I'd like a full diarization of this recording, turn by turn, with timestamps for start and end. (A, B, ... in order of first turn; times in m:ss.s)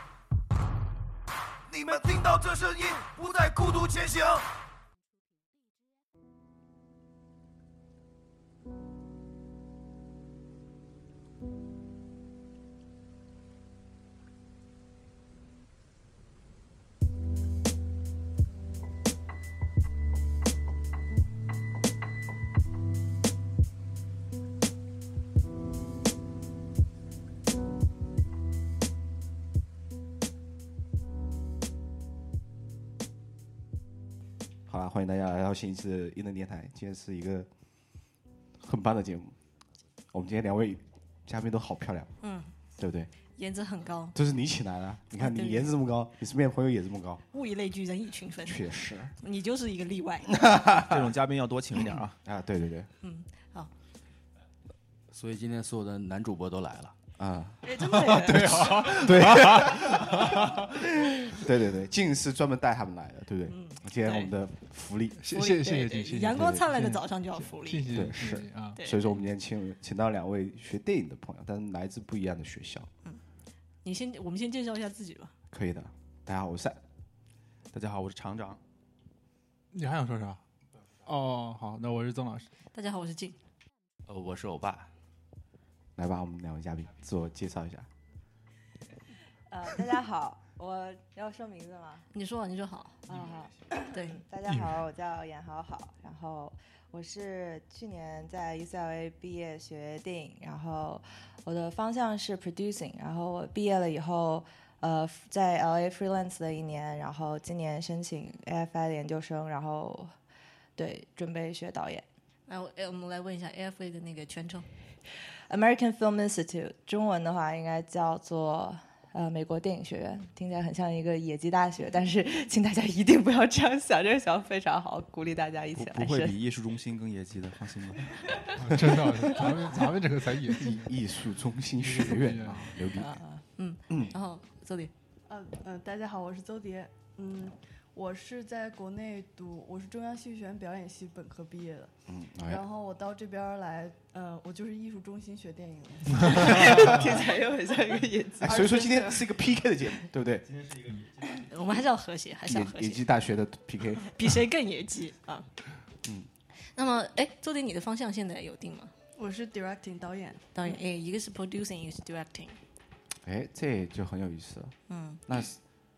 0:01.7-0:04.4 A
0:34.7-0:37.5 B
0:38.6-0:39.4 B
0:40.1-0:42.1 B
0:42.2-0:42.5 C
0:42.8-0:43.1 B
0:43.4-0:44.2 C
0:44.1-0:47.2 B
0:45.1-0:45.7 C
0:47.3-0:50.4 C
0:48.4-0:49.1 B
0:50.3-0:51.2 B
0:50.8-0:52.2 D
0:51.8-0:52.9 B
0:53.0-0:53.7 C
0:55.1-0:57.0 E
0:57.2-1:05.2 B
0:57.6-0:58.8 C
0:58.0-1:00.9 F
1:03.5-1:04.3 C
1:05.2-1:08.8 F
1:05.3-1:07.9 C
1:06.4-1:06.6 B
1:07.9-1:12.9 B
1:08.8-1:09.2 C
1:13.8-1:15.3 C
1:15.5-1:16.8 B
1:17.7-1:18.6 D
1:19.7-1:20.4 F
1:21.0-1:22.5 F
1:22.7-1:23.4 C
1:24.1-1:24.9 E
1:26.0-1:27.9 B
1:29.5-1:32.0 G
1:32.1-1:33.2 C
1:33.1-1:50.1 G
1:33.9-1:34.2 C
1:34.4-1:34.8 F
1:50.8-1:52.0 G
1:52.5-1:54.7 C
1:55.5-2:06.4 G
2:05.7-2:08.1 D
2:08.5-2:10.9 F
2:08.7-2:09.4 B
2:10.5-2:13.2 B
2:11.7-2:12.7 F
2:13.5-2:14.9 C
2:15.3-2:21.9 H
2:22.1-2:22.6 B
2:22.4-2:29.3 H
2:26.4-2:27.1 B
2:28.4-2:30.6 B
2:31.2-2:33.0 C
2:32.4-2:34.3 B
2:34.0-2:35.5 C
2:36.8-2:38.9 C
2:39.2-2:40.7 H
2:40.6-2:42.6 C
2:43.2-2:44.7 B
2:44.9-2:45.2 C
2:45.3-2:45.6 B